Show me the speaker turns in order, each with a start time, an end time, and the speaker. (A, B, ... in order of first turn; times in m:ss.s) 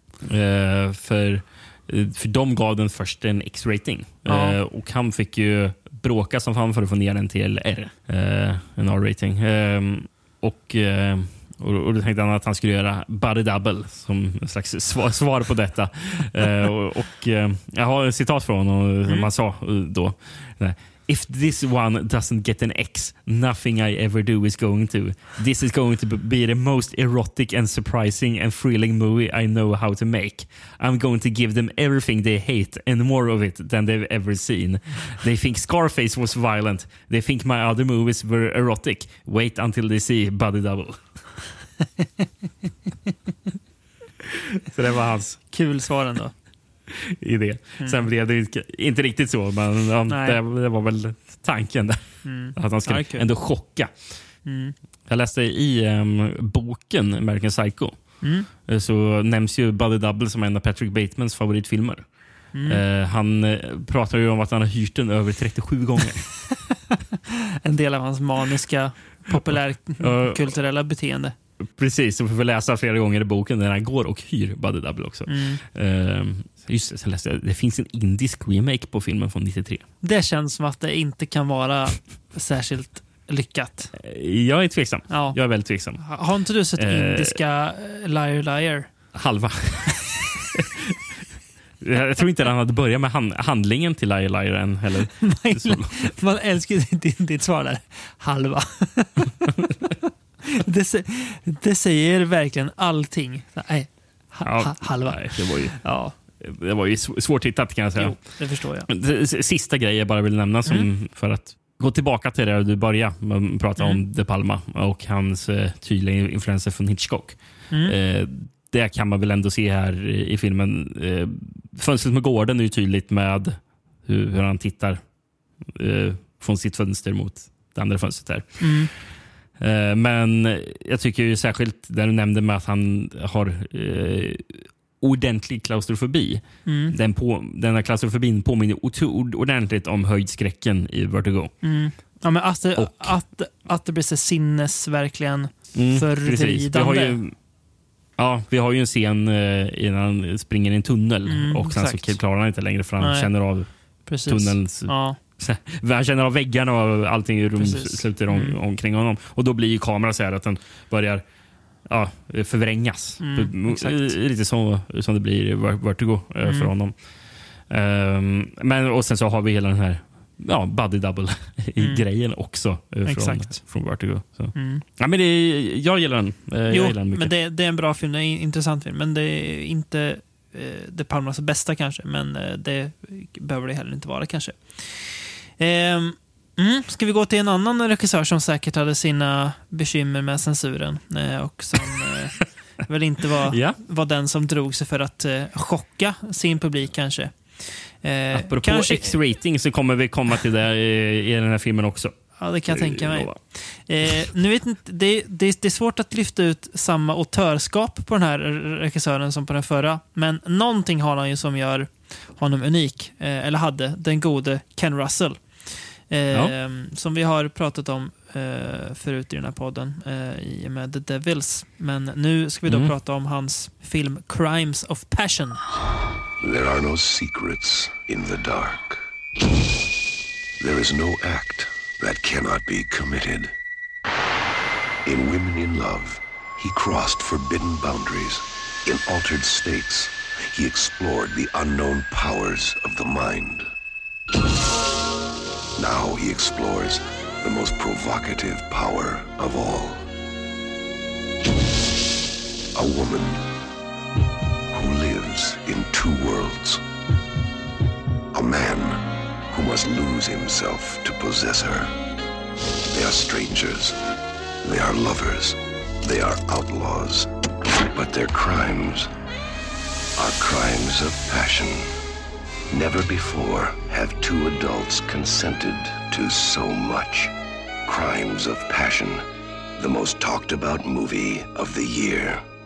0:00.2-0:41.2 A
0:04.3-0:04.6 B
0:44.2-0:45.4 A
0:45.5-0:46.3 B
0:46.9-0:54.2 A
0:47.8-0:48.1 B
0:50.1-0:50.4 B
0:52.2-0:53.3 B
0:54.4-0:54.8 B
0:55.1-1:06.3 A
0:58.2-0:58.5 B
1:02.5-1:02.8 B
1:07.6-1:11.4 B
1:09.3-1:10.5 A
1:11.6-1:19.9 A
1:15.3-1:15.6 B
1:20.0-1:23.9 B
1:24.0-1:27.4 A
1:25.1-1:28.9 B
1:29.1-1:30.6 A
1:31.8-1:36.1 A
1:35.2-1:39.9 B
1:40.5-1:46.2 B
1:44.4-2:05.0 A
1:48.0-1:48.9 B
2:05.7-2:09.0 A
2:08.6-2:08.9 B
2:09.6-2:21.5 A
2:16.6-2:17.0 B
2:21.6-2:27.2 B
2:22.8-2:23.2 A
2:25.7-2:27.4 A
2:28.2-2:41.2 A
2:31.3-2:32.2 B
2:33.0-2:35.2 B
2:37.6-2:38.6 B
2:41.8-2:47.1 A
2:43.2-2:44.2 B
2:46.4-2:46.7 B
2:47.6-2:57.3 A
2:51.8-2:52.0 B
2:53.0-2:53.7 B
2:54.5-2:54.8 B
2:56.7-3:19.2 B
3:13.5-3:13.8 A
3:18.3-3:23.4 A
3:22.4-3:45.6 B
3:42.6-3:42.9 A
3:46.4-3:49.0 C
3:50.6-3:53.5 C
3:55.0-4:03.7 C
4:05.8-4:10.1 C
4:12.8-4:13.4 C
4:14.7-4:16.8 C
4:18.3-4:21.9 C
4:22.9-4:24.0 C
4:24.6-4:29.1 C
4:30.2-4:31.9 C
4:32.7-4:37.3 C
4:37.9-4:39.2 C
4:39.8-4:42.4 C